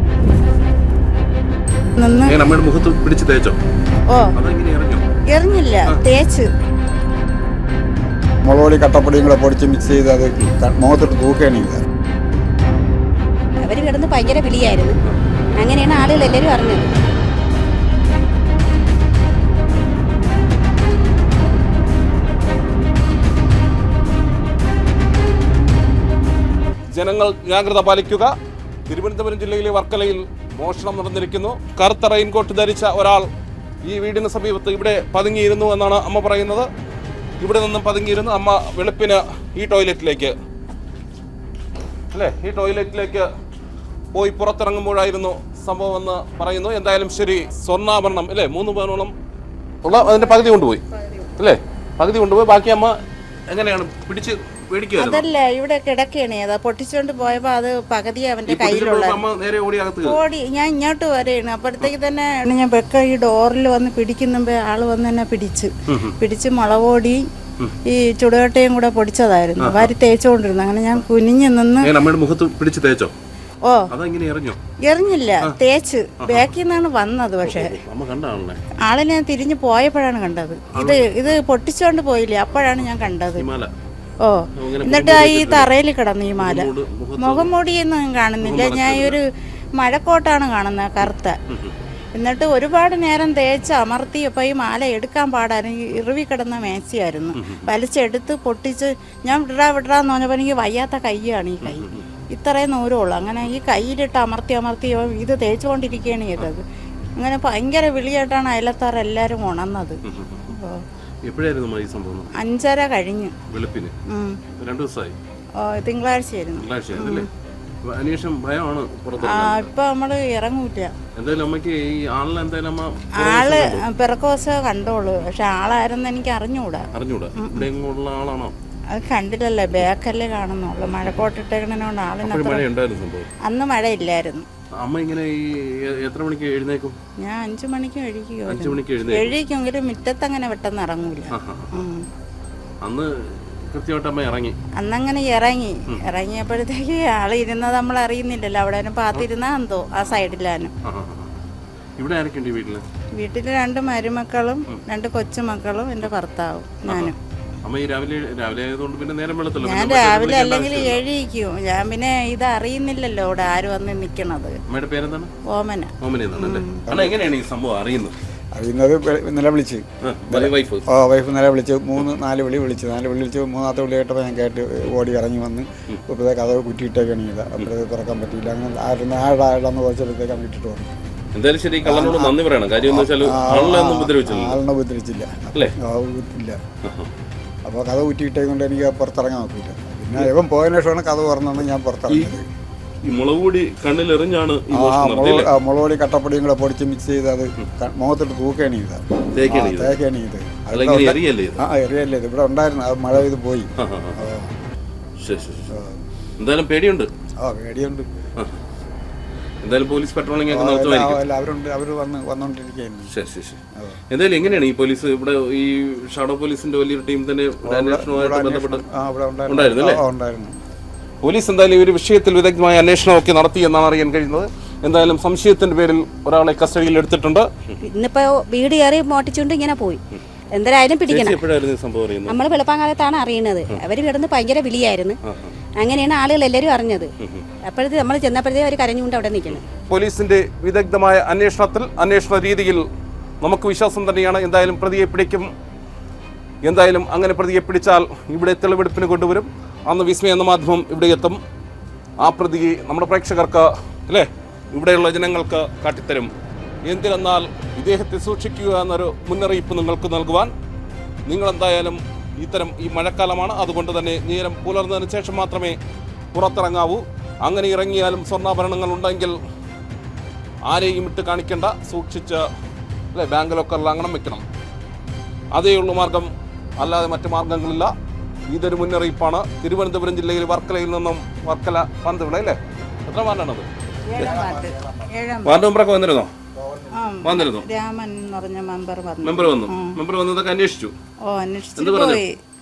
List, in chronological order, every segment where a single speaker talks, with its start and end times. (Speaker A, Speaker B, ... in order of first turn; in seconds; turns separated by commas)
Speaker A: 2.0-2.4, Speaker B: 2.2-3.6, Speaker B: 4.3-5.0, Speaker A: 5.3-6.5, Speaker C: 8.4-11.8, Speaker D: 13.6-14.9, Speaker D: 15.6-16.9, Speaker B: 26.9-28.3, Speaker B: 28.9-33.3, Speaker B: 33.8-36.7, Speaker B: 37.4-40.3, Speaker B: 42.1-43.3, Speaker B: 44.1-49.1, Speaker B: 49.8-50.8, Speaker A: 49.9-51.3, Speaker B: 51.4-53.0, Speaker B: 53.5-55.3, Speaker A: 55.0-59.2, Speaker B: 58.5-60.2, Speaker A: 60.0-67.2, Speaker B: 65.9-66.2, Speaker A: 67.9-71.9, Speaker B: 69.6-69.9, Speaker B: 71.8-73.1, Speaker B: 73.9-74.6, Speaker A: 74.9-77.8, Speaker B: 76.2-76.5, Speaker B: 77.4-78.6, Speaker A: 78.9-83.4, Speaker B: 80.7-81.4, Speaker B: 82.8-83.7, Speaker A: 84.2-86.7, Speaker B: 84.5-85.7, Speaker B: 86.3-87.5, Speaker A: 87.2-89.2, Speaker B: 88.4-89.2, Speaker A: 89.8-91.4, Speaker B: 91.5-91.8, Speaker A: 92.1-106.6, Speaker B: 97.4-97.7, Speaker B: 101.6-102.1, Speaker A: 107.2-110.0, Speaker B: 110.0-110.5, Speaker A: 110.5-110.8, Speaker B: 111.2-112.3, Speaker A: 112.4-113.3, Speaker B: 113.5-113.9, Speaker A: 114.1-114.4, Speaker B: 114.5-115.2, Speaker A: 115.6-117.3, Speaker B: 116.6-117.3, Speaker B: 117.8-119.7, Speaker A: 119.2-120.9, Speaker B: 121.1-123.8, Speaker A: 123.2-126.9, Speaker B: 126.9-128.5, Speaker A: 127.4-127.6, Speaker A: 128.9-132.6, Speaker B: 132.2-133.3, Speaker A: 133.5-134.4, Speaker B: 134.8-136.9, Speaker A: 137.2-142.0, Speaker B: 138.5-139.3, Speaker B: 141.3-141.8, Speaker B: 142.8-144.6, Speaker A: 144.8-150.7, Speaker B: 150.8-151.4, Speaker B: 152.0-152.8, Speaker A: 153.2-157.2, Speaker B: 156.9-157.1, Speaker B: 157.6-161.0, Speaker A: 159.6-164.6, Speaker B: 164.7-165.3, Speaker A: 165.5-166.8, Speaker B: 166.0-168.1, Speaker C: 166.9-167.2, Speaker C: 168.5-180.9, Speaker B: 170.0-170.9, Speaker B: 181.3-184.6, Speaker C: 181.8-186.6, Speaker B: 186.8-187.1, Speaker C: 187.7-192.5, Speaker B: 192.1-192.4, Speaker B: 193.0-195.5, Speaker C: 194.7-204.5, Speaker B: 199.3-200.0, Speaker B: 200.7-201.6, Speaker B: 203.8-204.2, Speaker B: 205.2-205.8, Speaker C: 205.7-206.0, Speaker B: 206.4-207.1, Speaker C: 207.4-208.1, Speaker B: 209.6-211.2, Speaker C: 210.5-213.1, Speaker B: 213.1-218.8, Speaker C: 217.6-220.5, Speaker B: 219.5-220.0, Speaker B: 221.2-227.8, Speaker D: 227.8-230.0, Speaker D: 230.5-231.4, Speaker B: 231.1-232.4, Speaker D: 232.3-235.2, Speaker B: 235.2-235.6, Speaker D: 235.8-237.1, Speaker B: 237.2-237.5, Speaker D: 237.7-239.6, Speaker B: 239.5-242.8, Speaker B: 243.4-245.5, Speaker B: 246.6-251.4, Speaker B: 252.2-256.3, Speaker B: 256.9-260.5, Speaker B: 261.3-265.8, Speaker B: 266.3-269.4, Speaker B: 270.7-272.4, Speaker B: 273.1-274.4, Speaker B: 275.5-277.9, Speaker B: 278.5-283.6, Speaker A: 284.1-285.6, Speaker C: 284.1-285.1, Speaker B: 285.4-286.3, Speaker C: 286.5-287.1, Speaker A: 286.9-289.9, Speaker B: 287.2-287.6, Speaker B: 289.2-290.9, Speaker A: 291.3-292.4, Speaker B: 291.8-292.2